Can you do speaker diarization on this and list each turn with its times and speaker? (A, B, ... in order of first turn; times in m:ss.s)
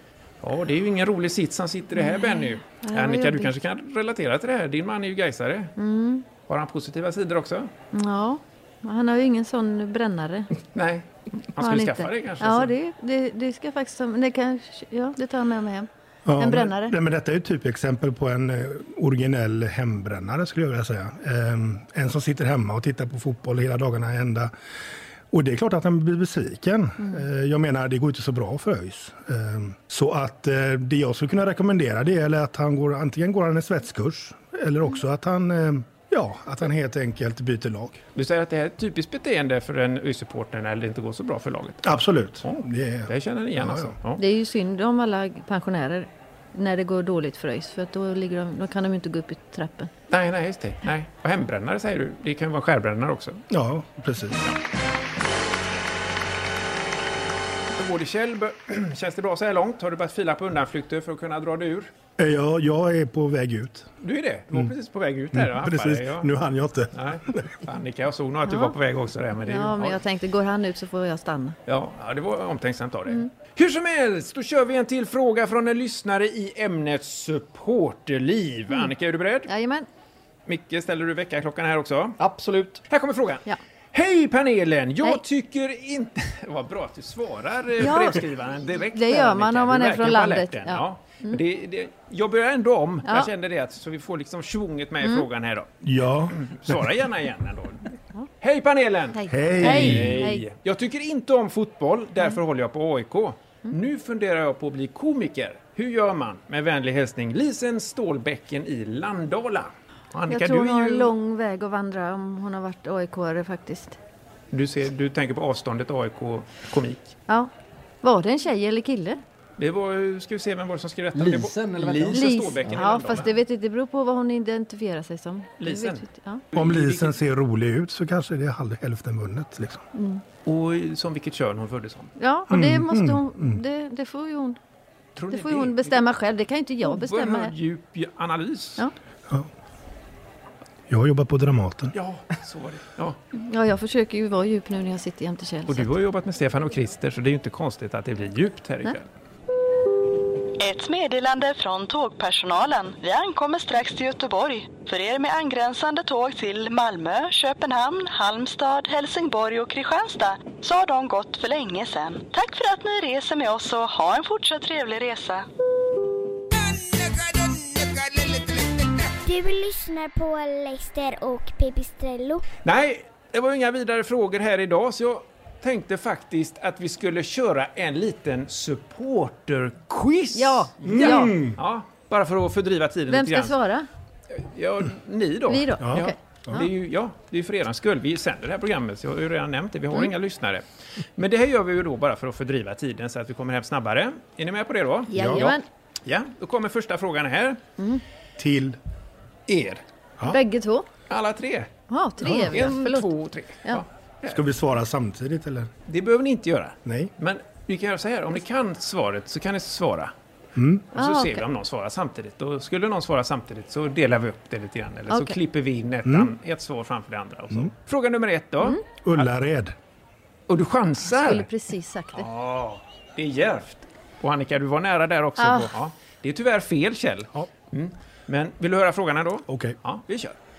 0:00.4-0:05.7 A
0:02.0-0:03.5 B
0:05.8-0:06.2 B
0:06.5-0:07.7 A
0:07.9-0:10.5 B
0:10.7-0:12.7 A
0:11.6-0:16.9 B
0:16.2-0:24.5 C
0:25.3-0:38.0 C
0:38.2-0:41.9 A
0:41.8-0:43.9 C
0:42.4-0:44.2 A
0:44.2-0:49.9 B
0:50.1-0:53.4 A
0:53.5-0:54.4 C
0:57.7-1:01.9 A
1:02.2-1:03.9 C
1:04.0-1:06.3 A
1:05.3-1:07.5 C
1:06.9-1:10.0 A
1:08.5-1:08.7 B
1:09.4-1:11.6 B
1:11.7-1:19.5 A
1:19.5-1:19.9 B
1:20.5-1:22.2 A
1:22.2-1:22.8 D
1:22.9-1:35.7 A
1:27.8-1:28.2 B
1:28.9-1:31.4 B
1:35.8-1:36.8 C
1:36.3-1:51.1 A
1:39.1-1:40.4 B
1:39.3-1:40.3 C
1:50.3-1:54.0 B
1:54.5-1:57.1 A
1:58.0-1:59.2 B
1:59.6-2:03.3 A
2:01.1-2:02.8 D
2:02.1-2:06.4 B
2:05.6-2:07.2 A
2:06.5-2:09.8 C
2:09.9-2:10.2 B
2:10.4-2:12.1 A
2:12.2-2:14.6 B
2:12.5-2:13.6 C
2:15.2-2:16.0 A
2:15.3-2:17.5 B
2:16.8-2:18.8 A
2:20.9-2:21.9 C
2:21.9-2:23.2 A
2:23.3-2:25.9 B
2:25.7-2:29.0 A
2:30.6-2:45.4 E
2:49.2-2:52.4 F
2:52.6-3:03.6 A
3:00.3-3:01.4 B
3:00.8-3:01.6 C
3:03.1-3:03.9 B
3:04.3-3:10.6 A
3:05.5-3:06.6 B
3:05.8-3:06.6 C
3:11.2-3:17.6 A
3:15.1-3:15.6 B
3:15.1-3:15.5 C
3:18.4-3:18.8 C
3:19.5-3:19.8 A
3:20.3-3:20.8 B
3:21.1-3:21.7 A
3:21.9-3:23.1 B
3:22.2-3:24.4 A
3:22.2-3:22.6 C
3:24.3-3:25.7 C
3:25.9-3:30.1 A
3:26.8-3:27.1 C
3:30.6-3:30.8 C
3:30.9-3:39.3 A
3:30.9-3:31.4 B
3:35.1-3:35.4 B
3:36.0-3:36.3 C
3:39.0-3:39.7 C
3:40.5-3:41.5 A
3:41.1-3:42.2 B
3:42.1-3:50.4 A
3:45.4-3:45.7 B
3:49.5-3:49.8 C